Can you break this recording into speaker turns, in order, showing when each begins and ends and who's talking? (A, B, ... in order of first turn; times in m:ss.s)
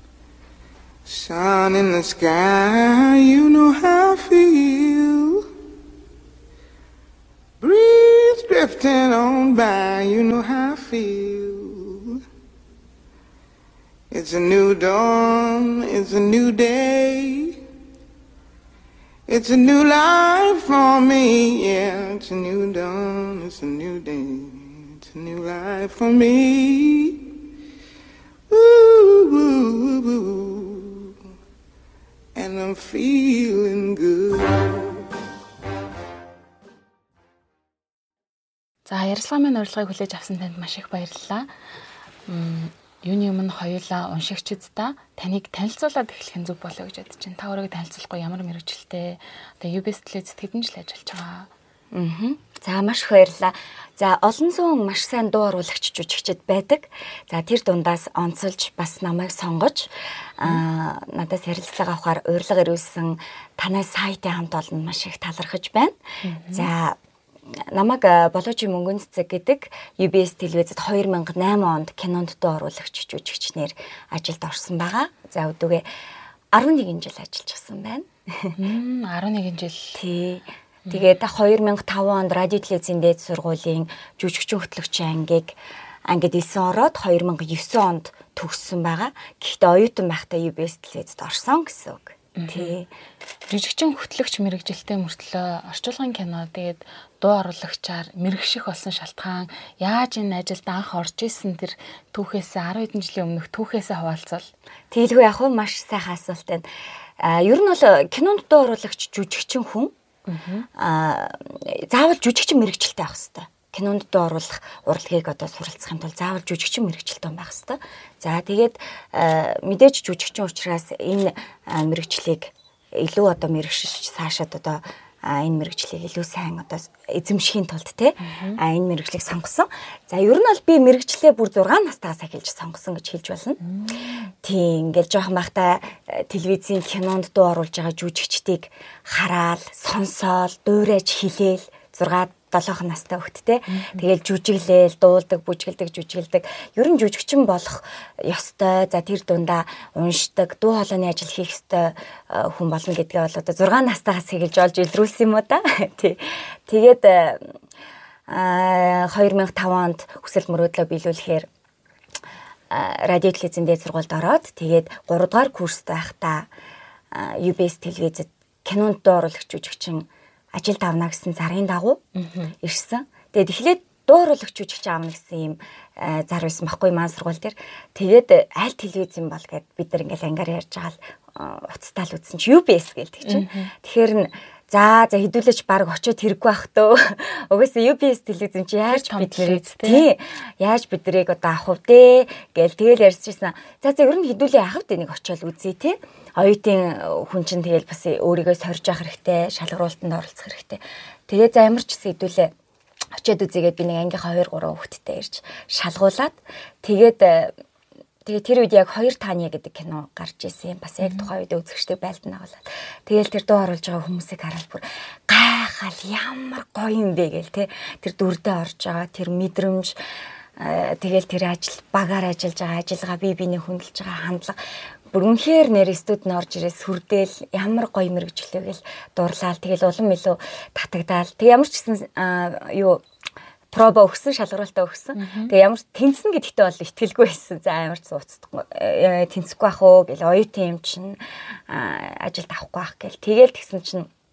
0:01.0-0:05.4 A
0:07.6-0:12.2 A
0:14.1-0:17.5 A
0:19.3-0:27.2 A
0:28.5-0:31.1 A
0:32.4-0:35.0 A
0:38.9-0:41.5 B
0:42.3-0:51.5 B
0:51.9-1:06.0 C
1:06.2-1:06.7 B
1:06.5-1:15.9 C
1:16.5-1:18.6 C
1:18.6-1:20.0 B
1:20.0-1:32.9 C
1:32.4-1:32.8 B
1:33.5-1:44.5 B
1:44.9-1:46.7 C
1:47.2-1:49.9 C
1:50.3-1:50.7 B
1:50.8-2:13.6 C
2:08.2-2:08.6 B
2:13.6-2:13.9 B
2:14.4-2:37.5 C
2:23.7-2:24.0 B
2:38.3-2:41.5 C
2:42.7-2:46.5 C
2:47.1-2:52.0 C
2:52.2-2:52.5 B
2:52.6-3:22.5 C
3:03.2-3:03.7 B
3:08.9-3:10.1 B
3:23.2-3:27.5 C
3:28.2-3:40.0 C
3:40.6-3:44.6 C
3:45.1-3:53.0 C
3:53.7-4:04.1 C
3:55.2-3:55.5 B